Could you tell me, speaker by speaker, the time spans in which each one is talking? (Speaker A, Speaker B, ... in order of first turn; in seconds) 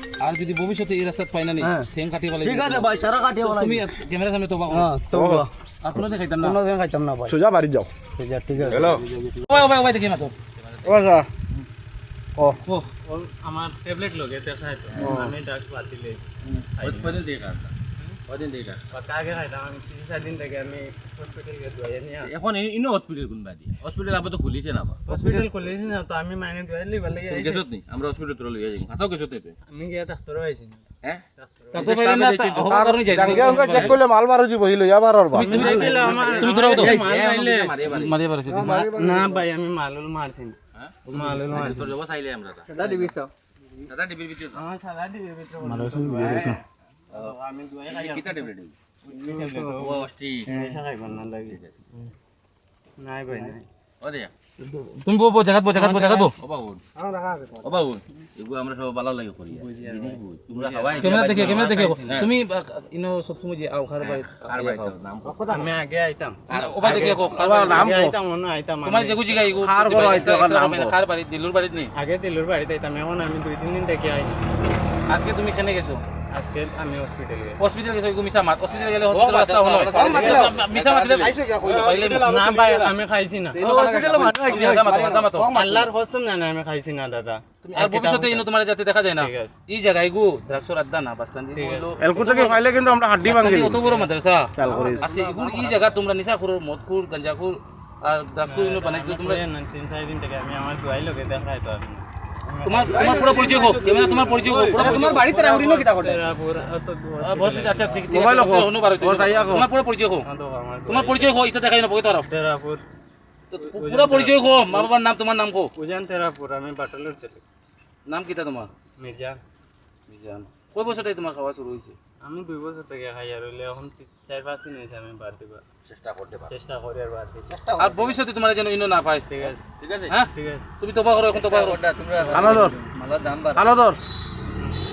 Speaker A: 0.2-4.9, 5.8-6.6, 9.3-10.3, 25.1-25.5, 31.7-34.0, 35.3-37.0, 37.9-39.0, 45.7-46.6, 54.9-56.4, 61.0-64.9, 66.5-67.9, 68.8-71.9, 75.1-76.0, 77.6-82.4, 83.6-85.5, 87.6-92.6, 93.2-99.4, 102.6-105.4, 107.2-110.3, 110.9-112.3, 113.5-115.7, 118.1-118.7, 120.1-122.0, 127.8-129.4, 130.1-131.8
Speaker B: 2.4-3.8, 4.8-5.5, 6.5-7.3, 8.2-9.0, 42.7-43.3, 45.7-46.3, 131.3-133.7
Speaker C: 4.7-5.4, 6.4-7.3, 8.2-9.2, 13.0-16.3, 16.8-17.2, 18.9-22.3, 25.1-27.7, 29.7-30.8, 31.4-32.6, 35.3-37.8, 38.9-41.9, 42.8-43.1, 44.5-46.6, 47.1-48.5, 49.0-51.6, 53.0-53.6, 55.8-56.3, 59.5-62.2, 65.4-69.5, 72.0-74.5, 76.3-77.6, 79.9-80.5, 82.2-83.7, 85.4-88.5, 89.2-89.6, 91.5-92.0, 93.8-94.1, 94.6-95.8, 98.5-103.8, 104.7-108.1, 110.2-111.3, 112.2-112.8, 113.6-114.9, 115.8-117.4, 119.0-119.4, 122.2-125.6, 126.5-127.6, 129.3-129.7, 130.3-130.7
Speaker D: 5.1-5.5, 7.3-7.9, 8.7-9.0, 10.8-11.3, 15.0-15.3, 32.7-36.1, 36.7-37.1, 38.6-39.3, 67.0-68.2, 69.6-71.0, 81.4-82.9, 84.2-85.7, 92.0-93.8, 94.6-95.1, 103.0-104.2, 104.7-105.8, 108.1-109.7, 132.3-132.8, 133.6-134.0
Speaker E: 10.5-11.1, 14.9-15.2, 16.5-17.7, 18.3-18.8, 22.2-25.0, 27.3-29.6, 31.7-32.5, 33.6-33.9, 35.8-38.1, 40.8-42.8, 43.8-44.6, 46.2-46.6, 47.9-48.7, 49.6-50.6, 51.5-51.7, 54.0-54.3, 56.4-56.8, 57.6-62.3, 64.0-65.7, 66.5-67.4, 79.0-81.4, 83.6-84.4, 104.6-105.4, 125.9-126.5, 127.7-128.1, 129.8-130.1